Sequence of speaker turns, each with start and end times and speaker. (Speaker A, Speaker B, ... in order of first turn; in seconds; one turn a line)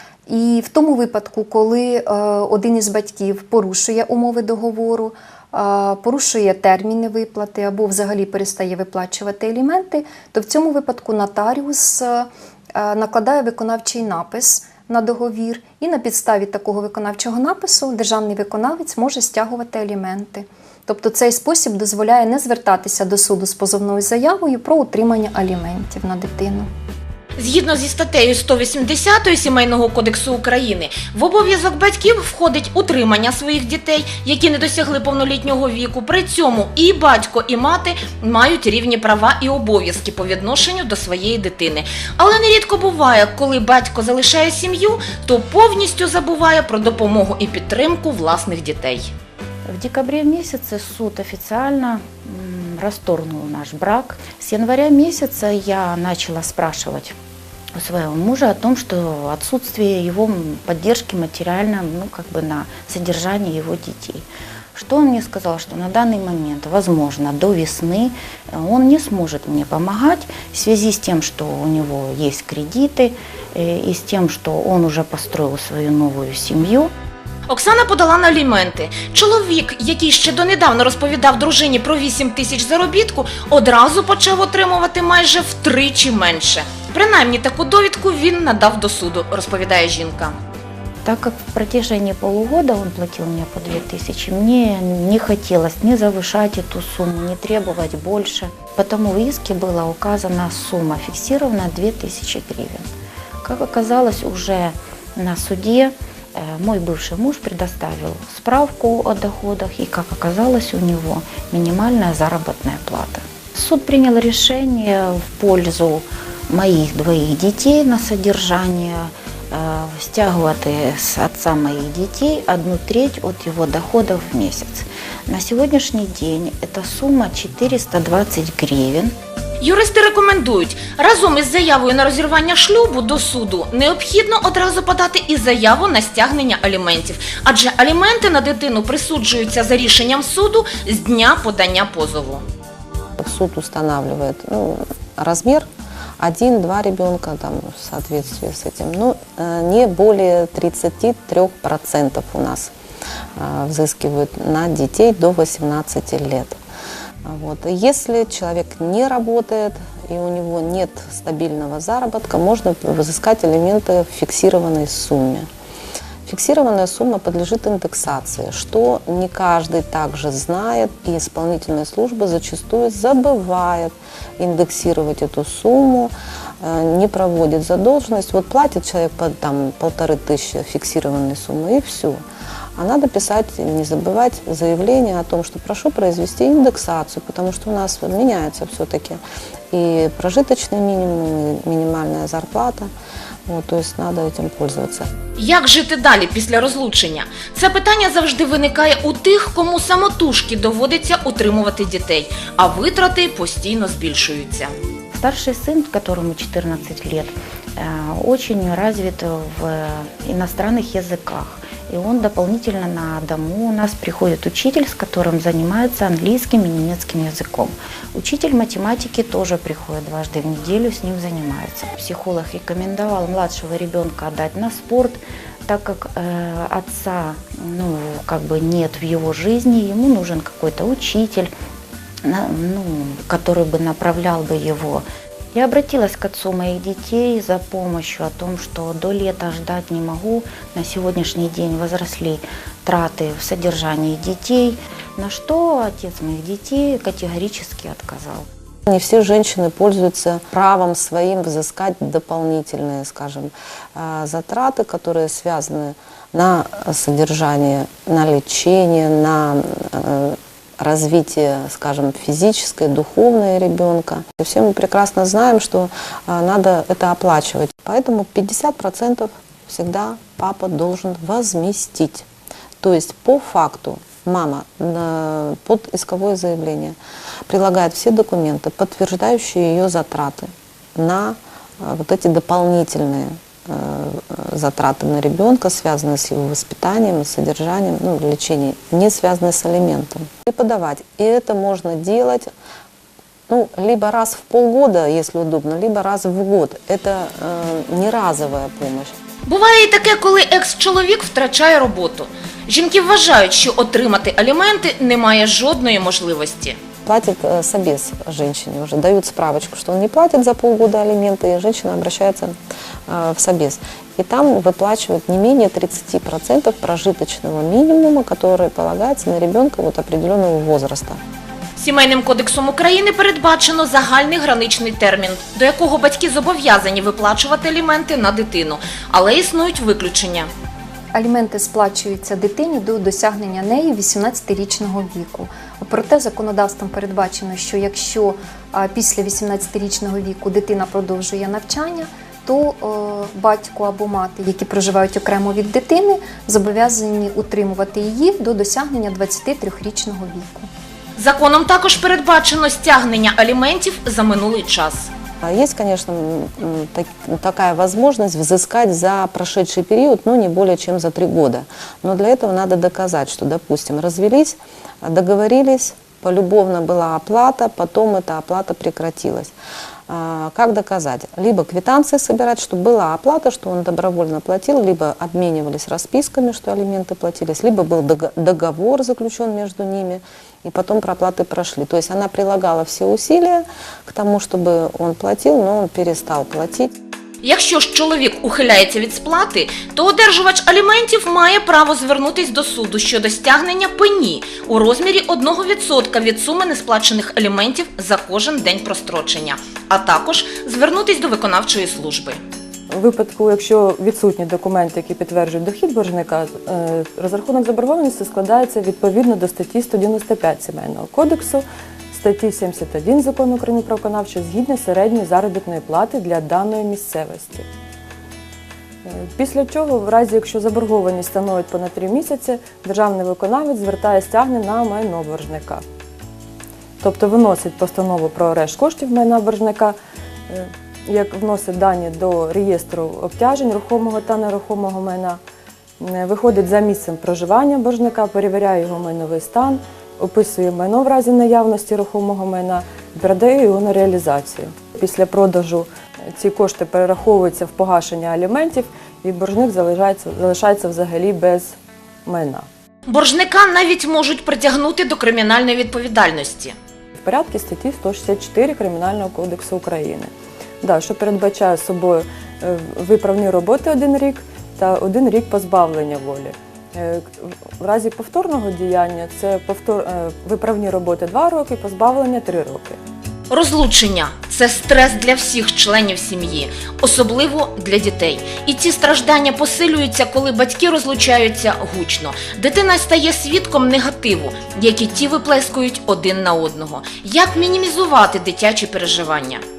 Speaker A: 0.3-26.7
Speaker B: 27.4-49.1
Speaker C: 49.7-57.2
Speaker C: 57.8-76.9
Speaker B: 77.5-90.3
Speaker C: 91.0-102.9
Speaker C: 103.4-129.1
Speaker B: 129.6-142.4
Speaker D: 143.2-145.7
Speaker D: 146.2-152.7
Speaker D: 153.4-156.6
Speaker D: 157.2-165.5
Speaker D: 166.2-182.2
Speaker D: 182.8-192.9
Speaker D: 193.5-195.1
Speaker B: 195.4-204.7
Speaker C: 205.1-231.5
Speaker C: 232.2-248.5
Speaker D: 248.9-272.2
Speaker D: 272.8-277.0
Speaker D: 277.5-292.5
Speaker D: 293.5-299.1
Speaker B: 299.4-306.8
Speaker D: 307.1-312.6
Speaker D: 313.1-321.2
Speaker B: 321.8-330.5
Speaker A: 331.1-350.7
Speaker B: 351.2-355.1
Speaker D: 355.4-369.5
Speaker D: 370.1-386.9
Speaker B: 387.4-402.4
Speaker E: 403.0-417.6
Speaker E: 419.4-425.8
Speaker E: 427.0-430.0
Speaker E: 430.5-435.4
Speaker E: 436.0-445.9
Speaker E: 446.4-451.8
Speaker E: 452.3-452.6
Speaker B: 453.1-456.8
Speaker E: 457.3-460.3
Speaker E: 460.8-473.0
Speaker B: 473.5-489.6